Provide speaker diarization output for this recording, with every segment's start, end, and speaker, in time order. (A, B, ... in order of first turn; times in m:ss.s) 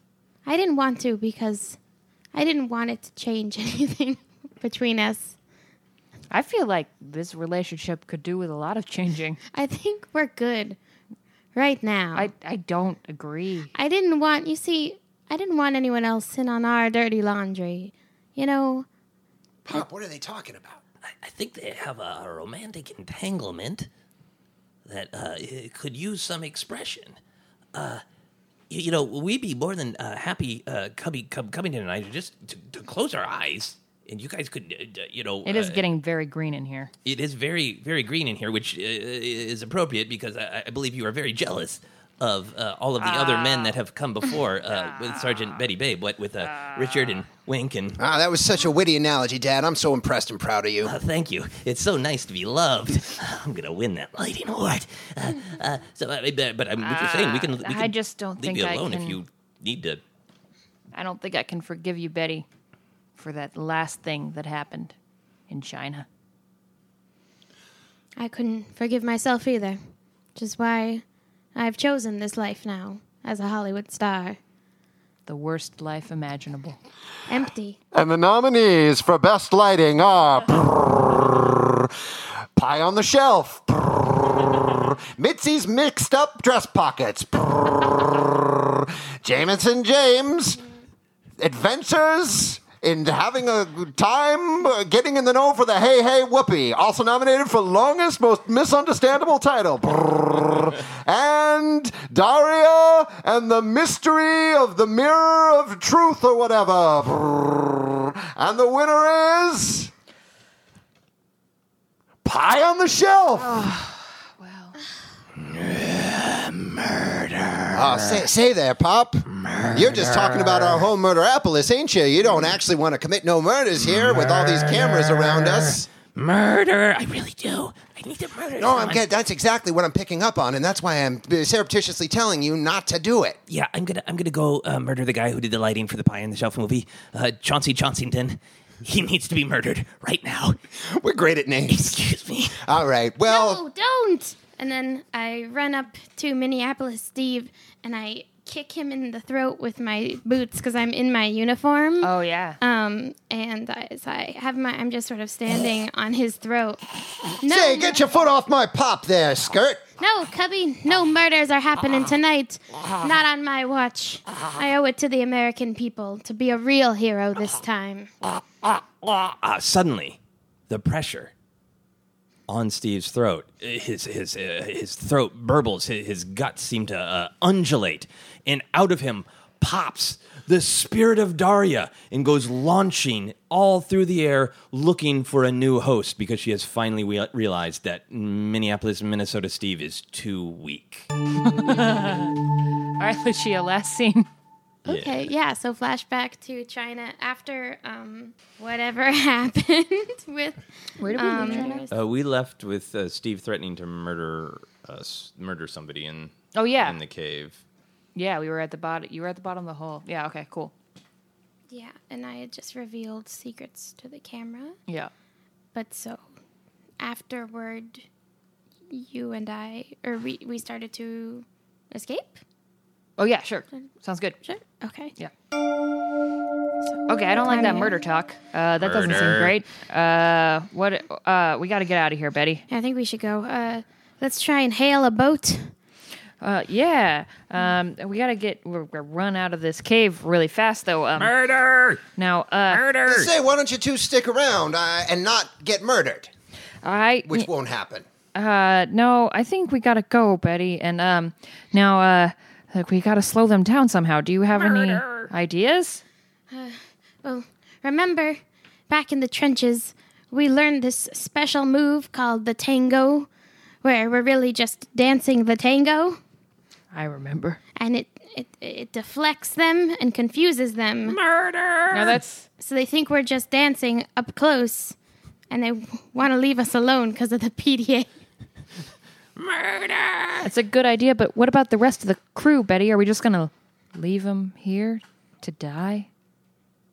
0:00.4-0:01.8 A
0:02.3-0:05.4 A
0:06.3-0:09.4 B
0:09.5-0:10.8 A
0:11.6-0:12.3 A
0:12.2-0:13.7 B
0:13.7-0:18.9 A
0:19.6-0:20.8 C
0:21.2-0:23.9 D
0:24.9-0:27.2 D
0:27.7-0:28.0 D
0:28.7-0:35.8 D
0:35.4-0:36.9 B
0:37.0-0:48.0 D
0:43.0-0:43.8 B
0:44.7-0:45.6 B
0:46.4-0:47.2 B
0:48.0-0:50.9 C
0:50.8-1:00.0 D
0:56.8-0:59.2 B
1:00.9-1:02.4 B
1:03.2-1:05.0 B
1:05.5-1:06.1 B
1:08.2-1:09.8 A
1:10.4-1:11.0 A
1:11.6-1:14.4 A
1:15.3-1:16.8 B
1:17.3-1:17.8 A
1:17.9-1:22.0 C
1:22.6-1:30.6 C
1:31.4-1:49.9 C
1:52.2-1:53.7 C
1:53.4-1:54.8 B
1:55.4-1:58.3 D
1:57.7-2:05.9 C
1:59.3-2:00.8 D
2:03.9-2:09.0 D
2:08.6-2:13.4 C
2:13.5-2:20.6 D
2:20.8-2:22.0 C
2:21.7-2:22.6 D
2:22.5-2:23.6 C
2:23.3-2:32.1 A
2:32.0-2:32.6 B
2:32.6-2:38.1 A
2:37.4-2:39.8 C
2:40.0-2:48.1 A
2:48.6-2:50.2 D
2:50.7-2:51.3 D
2:52.5-3:11.1 D
3:11.4-3:12.4 B
3:13.0-3:14.3 B
3:14.8-3:21.9 A
3:14.9-3:15.3 D
3:21.0-3:21.9 B
3:21.9-3:27.6 D
3:26.5-3:27.0 B
3:28.2-3:30.7 B
3:31.7-3:34.8 A
3:35.7-3:36.2 A
3:37.0-3:38.1 A
3:38.9-3:42.4 A
3:43.2-3:44.4 B
3:44.4-3:45.1 A
3:46.9-3:47.9 A
3:47.1-3:52.6 B
3:48.8-3:49.6 D
3:52.7-3:55.7 A
3:56.4-4:01.3 B
4:01.2-4:02.0 D
4:02.2-4:02.8 B
4:02.7-4:03.3 D
4:03.0-4:06.3 C
4:06.8-4:07.5 B
4:07.3-4:08.1 C
4:08.4-4:16.0 B
4:14.5-4:15.3 D
4:16.5-4:23.3 A
4:23.8-4:26.2 A
4:26.9-4:27.6 B
4:27.8-4:31.2 A
4:31.1-4:32.2 D
4:31.9-4:32.5 B
4:32.6-4:35.0 A
4:35.5-4:38.1 A
4:39.4-4:40.5 D
4:40.4-4:46.1 B